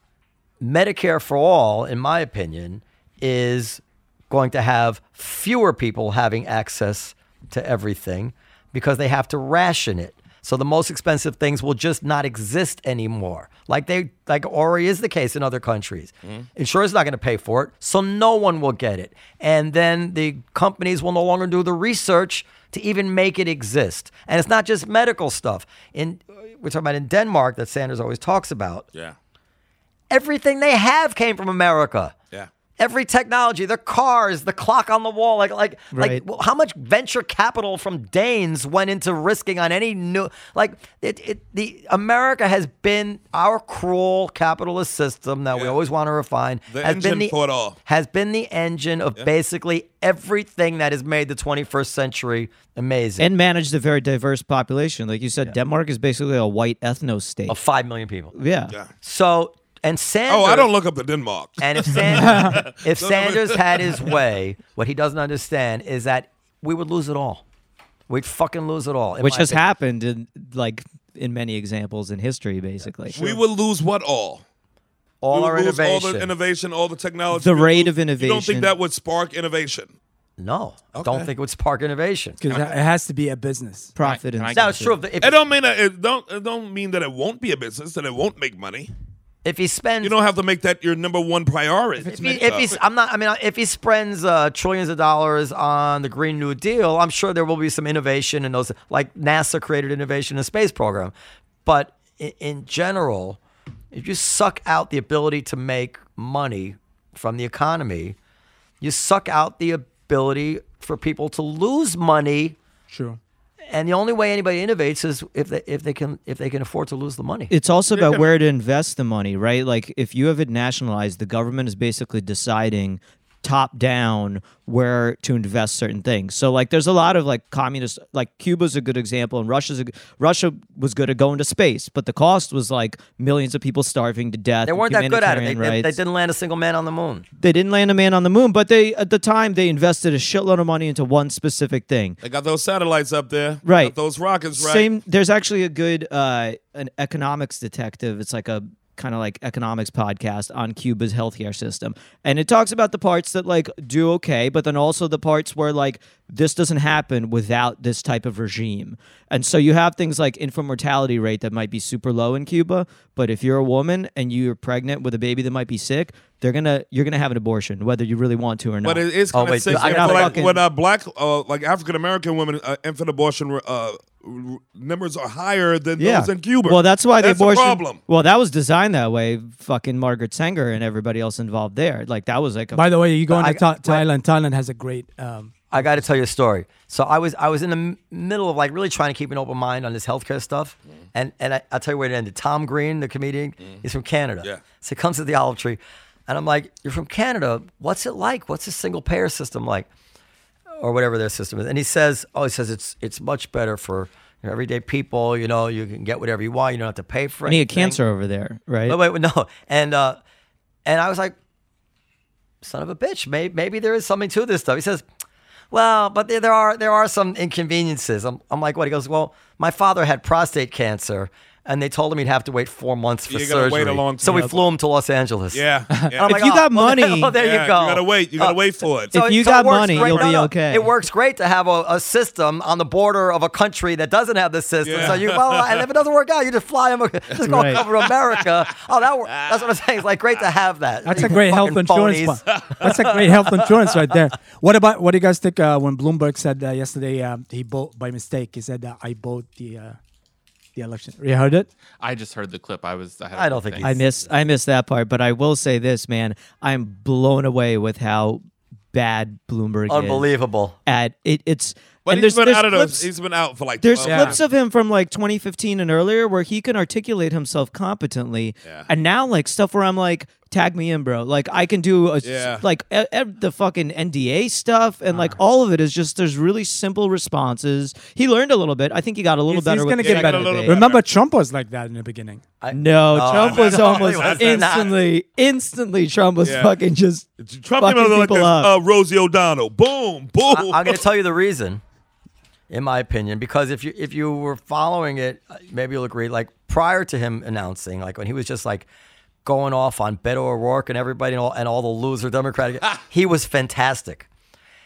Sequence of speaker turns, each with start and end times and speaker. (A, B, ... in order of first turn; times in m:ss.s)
0:00.6-0:28.9 A
0:30.1-0:32.2 A
0:32.8-0:53.3 A
0:35.9-0:36.2 B
0:46.7-0:47.8 C
0:53.2-0:57.6 B
0:57.5-0:58.3 A
0:58.3-0:58.7 B
0:59.0-1:00.7 A
1:00.3-1:04.0 C
1:01.6-1:07.4 A
1:02.2-1:02.6 D
1:08.1-1:09.6 A
1:09.2-1:13.3 B
1:13.1-1:14.4 C
1:15.2-1:16.3 A
1:15.3-1:19.9 C
1:17.3-1:18.7 B
1:20.4-1:22.4 A
1:20.9-1:21.3 C
1:22.4-1:23.9 D
1:24.0-1:25.0 B
1:24.0-1:24.9 E
1:24.5-1:25.4 A
1:25.2-1:28.9 C
1:29.4-1:30.2 A
1:30.0-1:32.8 C
1:32.0-1:41.1 A
1:41.6-1:43.4 A
1:43.9-1:48.2 A
1:48.8-1:52.6 A
1:52.9-1:53.2 D
1:53.7-1:57.5 A
1:57.5-2:16.0 B
1:57.9-1:58.3 C
2:14.6-2:17.2 A
2:17.4-2:22.2 B
2:22.2-2:24.9 C
2:23.6-2:24.0 B
2:24.5-2:50.6 B
2:48.8-2:58.0 C
2:49.3-2:50.4 A
2:56.0-3:02.9 B
3:02.7-3:06.1 D
3:03.3-3:04.0 A
3:05.7-3:19.9 A
3:20.8-3:28.0 A
3:27.4-3:29.0 B
3:28.9-3:30.2 A
3:30.8-3:31.4 A
3:32.6-3:35.0 A
3:35.7-3:48.6 A
3:43.3-3:44.7 C
3:45.5-3:46.6 C
3:46.2-3:47.3 B
3:47.3-3:49.1 C
3:49.1-4:02.8 A
3:49.1-3:50.9 B
3:49.8-3:50.4 C
3:54.8-3:55.8 C
3:57.3-3:58.1 C
3:57.4-3:57.8 B
4:01.0-4:10.0 D
4:02.5-4:02.9 C
4:10.8-4:11.7 D
4:12.0-4:14.0 E
4:13.3-4:14.0 A
4:13.8-4:20.3 B
4:19.9-4:20.8 A
4:20.8-4:23.1 B
4:22.0-4:24.4 C
4:23.8-4:40.8 B
4:24.0-4:24.4 D
4:32.2-4:32.6 C
4:35.1-4:35.4 D
4:39.5-4:42.4 D
4:40.0-4:41.0 C
4:42.6-4:45.0 A
4:42.7-4:47.3 B
4:43.2-4:44.9 C
4:46.4-4:46.7 C
4:47.4-4:51.0 C
4:47.8-4:48.7 B
4:50.5-4:51.8 A
4:52.7-4:58.8 A
4:59.4-5:04.3 A